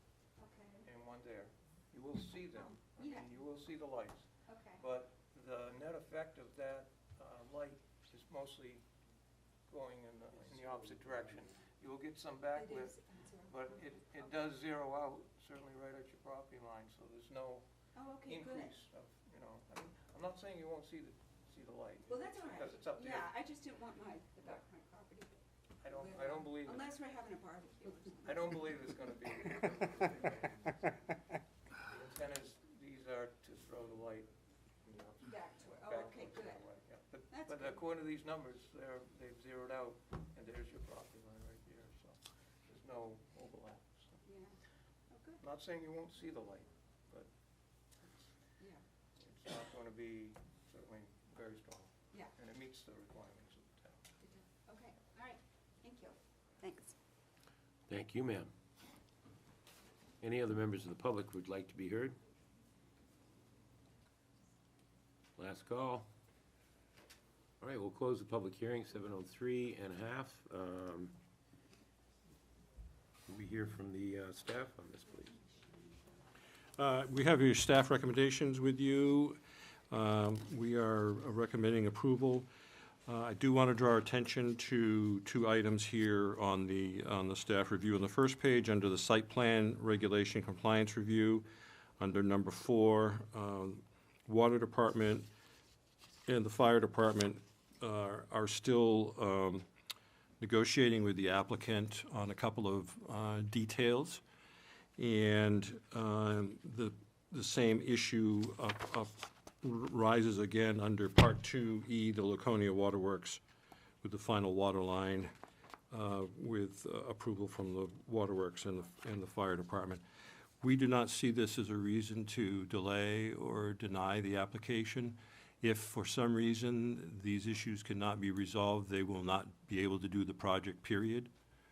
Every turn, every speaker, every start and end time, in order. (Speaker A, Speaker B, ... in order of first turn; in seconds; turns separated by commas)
Speaker A: 0.4-0.8, Speaker B: 0.8-8.8, Speaker A: 3.0-3.3, Speaker A: 4.5-4.8, Speaker B: 9.7-17.7, Speaker A: 12.6-14.3, Speaker A: 17.9-18.8, Speaker B: 18.2-23.4, Speaker A: 22.1-29.6, Speaker B: 25.8-27.0, Speaker B: 28.2-31.1, Speaker B: 31.8-44.2, Speaker A: 35.2-36.6, Speaker A: 37.3-37.8, Speaker A: 44.2-44.6, Speaker A: 45.1-45.4, Speaker B: 45.4-47.3, Speaker B: 48.0-48.3, Speaker B: 49.2-54.0, Speaker A: 54.2-57.0, Speaker C: 57.9-58.5, Speaker C: 60.2-62.2, Speaker C: 65.4-66.1, Speaker C: 67.6-71.2, Speaker C: 73.3-75.4, Speaker A: 75.3-76.0, Speaker D: 76.8-82.5, Speaker D: 83.0-91.5, Speaker D: 92.0-95.3, Speaker D: 96.3-99.7, Speaker D: 100.4-104.2, Speaker D: 105.0-113.4, Speaker D: 114.0-115.3, Speaker D: 115.9-120.0, Speaker D: 120.6-131.3